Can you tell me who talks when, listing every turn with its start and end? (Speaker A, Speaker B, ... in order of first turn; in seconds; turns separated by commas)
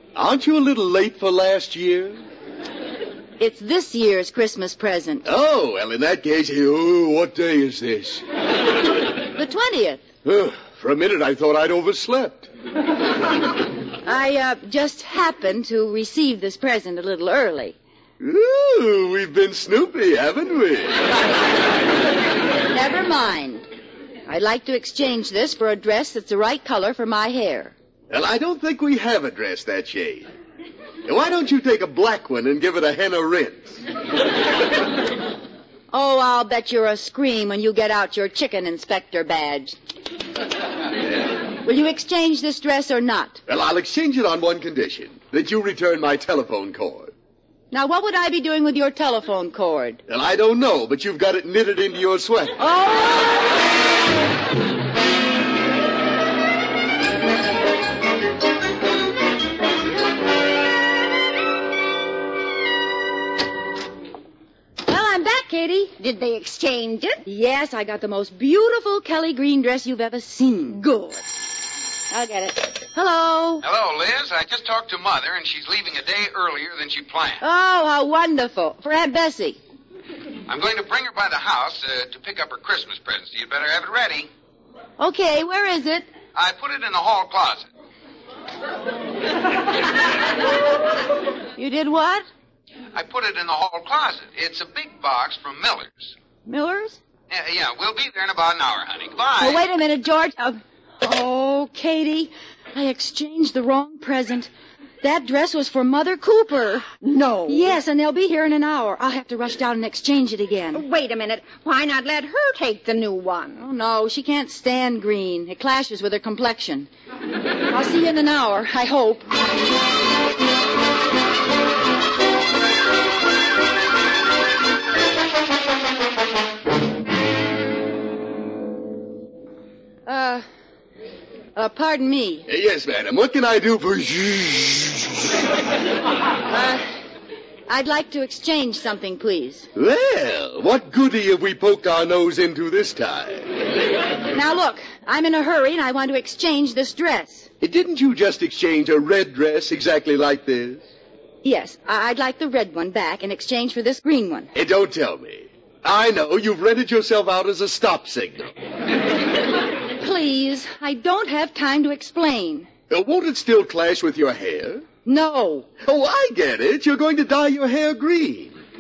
Speaker A: 0.1-2.2, Speaker B: 3.4-5.2, Speaker A: 5.2-8.2, Speaker B: 9.3-10.0, Speaker A: 10.2-12.5, Speaker B: 14.0-17.8, Speaker A: 18.2-21.1, Speaker B: 22.7-23.6, Speaker B: 24.3-27.7, Speaker A: 28.1-30.3, Speaker A: 31.0-33.8, Speaker B: 35.9-39.7, Speaker B: 41.6-43.4, Speaker A: 43.5-47.1, Speaker B: 47.7-50.0, Speaker A: 50.1-52.5, Speaker B: 52.6-53.4, Speaker B: 64.8-65.9, Speaker C: 66.0-67.2, Speaker B: 67.2-71.2, Speaker B: 72.1-73.6, Speaker D: 73.6-77.4, Speaker B: 77.4-79.6, Speaker D: 80.5-84.3, Speaker B: 85.0-86.0, Speaker D: 86.3-87.7, Speaker B: 91.6-92.2, Speaker D: 92.9-96.1, Speaker B: 96.5-97.0, Speaker D: 97.3-99.6, Speaker B: 99.4-104.5, Speaker B: 105.0-106.9, Speaker C: 107.0-107.7, Speaker B: 107.5-110.8, Speaker C: 110.7-113.6, Speaker B: 113.6-116.9, Speaker B: 117.7-119.2, Speaker B: 130.1-130.4, Speaker B: 131.6-132.4, Speaker A: 132.5-135.3, Speaker B: 136.5-136.8, Speaker B: 137.7-139.7, Speaker A: 139.8-143.5, Speaker B: 144.3-147.5, Speaker A: 147.6-150.8, Speaker B: 151.4-154.5, Speaker A: 154.5-158.5, Speaker B: 160.0-162.7, Speaker A: 162.9-164.8, Speaker B: 165.1-165.7, Speaker A: 165.8-168.6